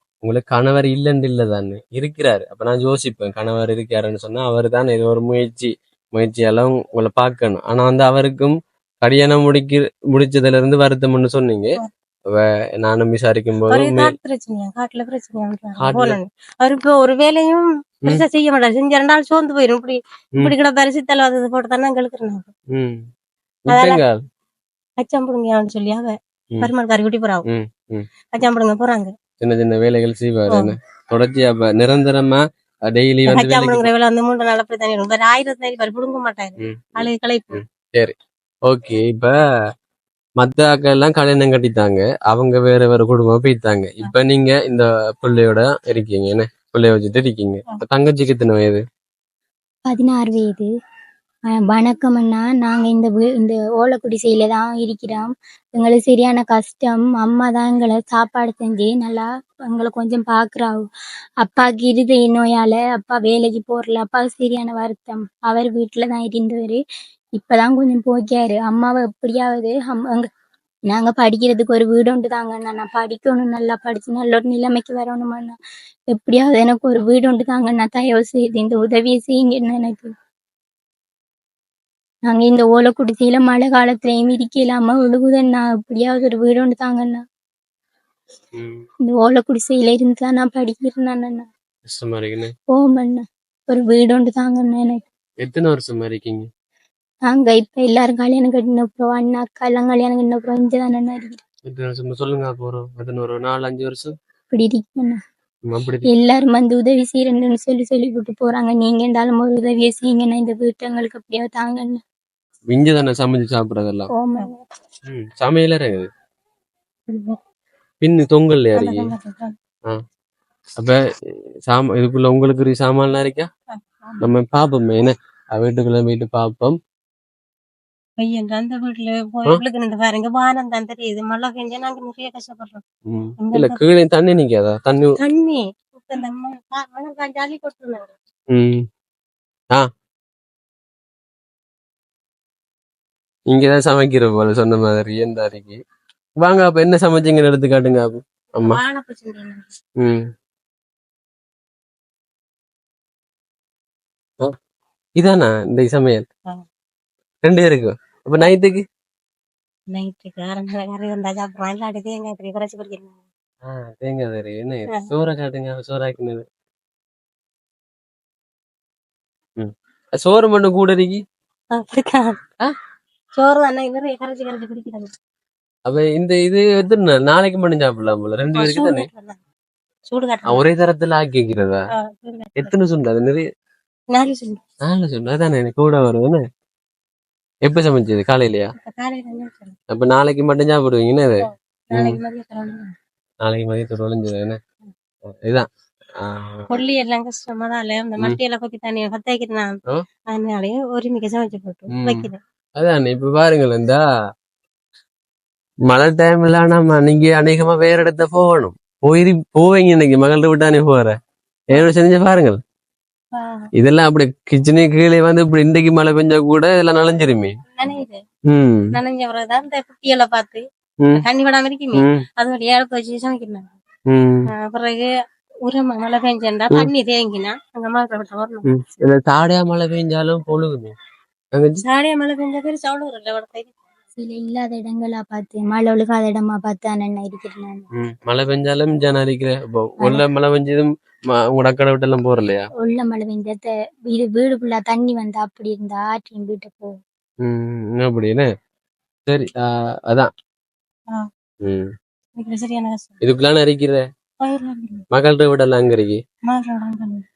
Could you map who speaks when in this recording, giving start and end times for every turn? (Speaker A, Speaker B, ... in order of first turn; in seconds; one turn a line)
Speaker A: 0.2-11.8
Speaker A: 12.3-14.1
Speaker B: 13.7-22.5
Speaker A: 15.8-16.2
Speaker A: 22.7-23.0
Speaker A: 23.7-24.2
Speaker B: 23.7-24.0
Speaker B: 25.0-27.4
Speaker A: 27.5-28.1
Speaker B: 28.3-29.1
Speaker A: 29.4-33.9
Speaker B: 33.3-37.6
Speaker A: 36.6-38.1
Speaker A: 38.7-39.4
Speaker A: 40.4-48.8
Speaker C: 49.9-50.7
Speaker C: 51.7-60.9
Speaker C: 61.4-66.8
Speaker C: 67.4-70.3
Speaker C: 70.9-75.6
Speaker C: 76.1-80.1
Speaker C: 82.3-87.2
Speaker A: 88.6-88.8
Speaker C: 89.0-91.5
Speaker A: 91.9-92.5
Speaker C: 92.7-95.0
Speaker A: 95.4-96.5
Speaker C: 97.3-101.4
Speaker A: 101.7-104.1
Speaker C: 104.5-105.2
Speaker A: 105.7-106.1
Speaker C: 106.1-112.0
Speaker A: 112.7-114.1
Speaker C: 114.2-114.6
Speaker A: 115.1-116.1
Speaker B: 117.1-117.4
Speaker A: 118.0-119.1
Speaker B: 118.8-119.5
Speaker A: 121.7-123.5
Speaker B: 123.7-124.3
Speaker A: 124.2-126.8
Speaker B: 128.2-132.8
Speaker A: 133.1-135.2
Speaker B: 133.4-133.8
Speaker B: 135.2-138.1
Speaker A: 138.5-138.8
Speaker A: 143.5-145.8
Speaker A: 146.4-148.8
Speaker B: 148.6-149.7
Speaker A: 155.2-156.2
Speaker A: 157.4-158.8
Speaker B: 159.9-163.2
Speaker A: 163.6-166.4
Speaker A: 169.6-171.2
Speaker B: 171.7-172.4
Speaker B: 173.4-175.1
Speaker A: 175.9-179.1
Speaker B: 178.5-179.4
Speaker B: 180.1-180.6
Speaker A: 180.5-181.8
Speaker B: 182.0-182.7
Speaker A: 182.6-183.4
Speaker B: 184.1-184.6
Speaker A: 184.8-186.4
Speaker A: 187.7-188.7
Speaker B: 188.8-189.8
Speaker A: 189.9-192.2
Speaker B: 191.4-192.9
Speaker A: 193.4-194.6
Speaker A: 196.2-196.7
Speaker B: 196.7-199.7
Speaker B: 200.3-202.4
Speaker A: 201.9-204.0
Speaker A: 205.9-211.2
Speaker A: 211.7-212.6
Speaker B: 213.3-213.7
Speaker A: 213.8-217.5
Speaker B: 217.8-218.2
Speaker A: 218.5-218.9
Speaker B: 218.9-220.6
Speaker B: 221.1-223.8
Speaker A: 221.9-222.2
Speaker A: 224.1-224.5
Speaker B: 224.5-225.1
Speaker B: 225.7-228.7
Speaker A: 228.7-230.9
Speaker A: 231.6-231.8
Speaker B: 231.8-233.8
Speaker C: 234.2-237.8
Speaker A: 238.0-242.7
Speaker C: 242.8-247.0
Speaker A: 247.4-248.5
Speaker A: 249.3-250.3
Speaker A: 251.6-251.9
Speaker B: 252.4-253.2
Speaker A: 253.2-254.0
Speaker B: 254.4-255.0
Speaker A: 255.1-256.2
Speaker B: 256.5-257.2